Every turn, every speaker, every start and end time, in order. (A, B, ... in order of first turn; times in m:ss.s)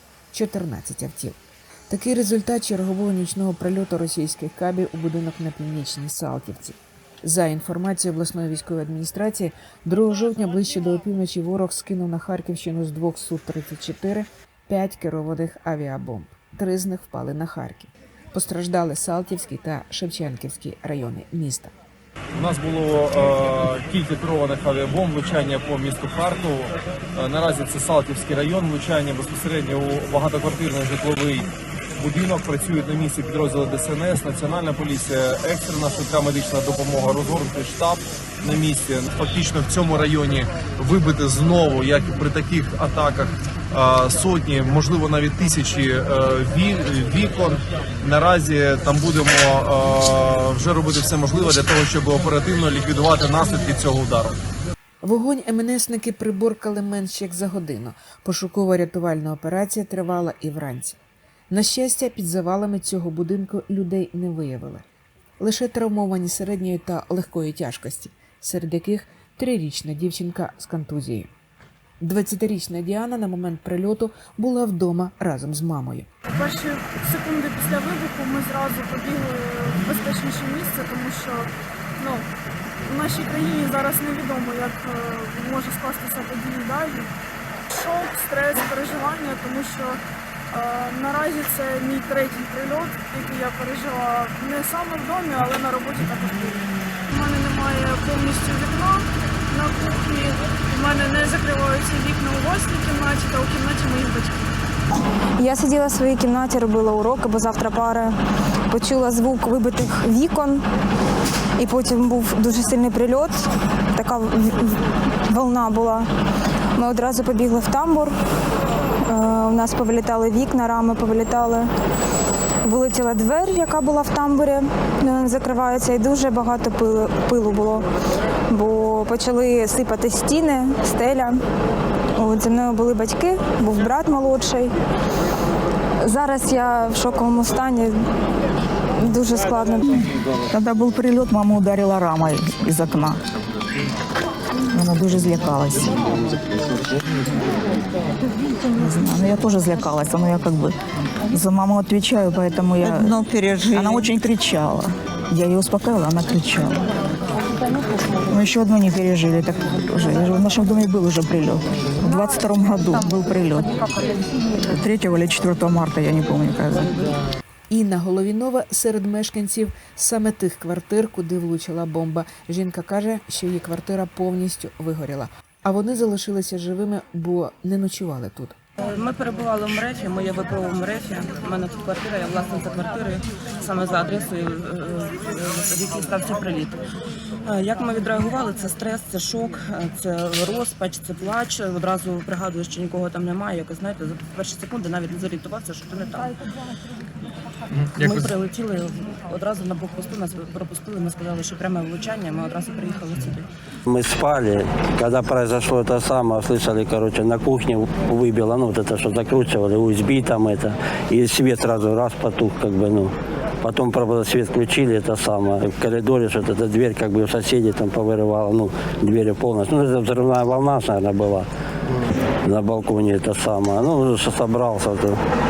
0:00.3-0:01.4 A
0:01.9-0:21.7 A
0:22.3-0:54.4 B
0:55.0-1:01.0 A
1:01.5-1:04.8 A
1:05.4-1:11.3 A
1:12.0-1:16.1 A
1:16.3-1:22.3 C
1:22.9-1:27.1 C
1:27.7-1:30.0 C
1:30.5-1:44.5 C
1:45.4-1:48.2 D
1:48.7-1:50.6 D
1:51.6-1:56.1 D
1:56.8-1:58.1 D
1:59.1-2:01.7 D
2:02.6-2:07.9 D
2:08.5-2:11.4 D
2:12.2-2:14.7 D
2:16.0-2:17.9 D
2:19.0-2:20.1 D
2:20.5-2:23.2 E
2:24.7-2:26.0 E
2:28.7-2:30.8 E
2:31.3-2:36.9 E
2:38.3-2:43.7 E
2:44.6-2:47.0 E
2:47.7-2:58.5 A
2:58.8-3:06.8 F
3:07.4-3:16.4 F
3:17.9-3:23.5 F
3:23.9-3:41.5 G
3:42.4-3:45.2 G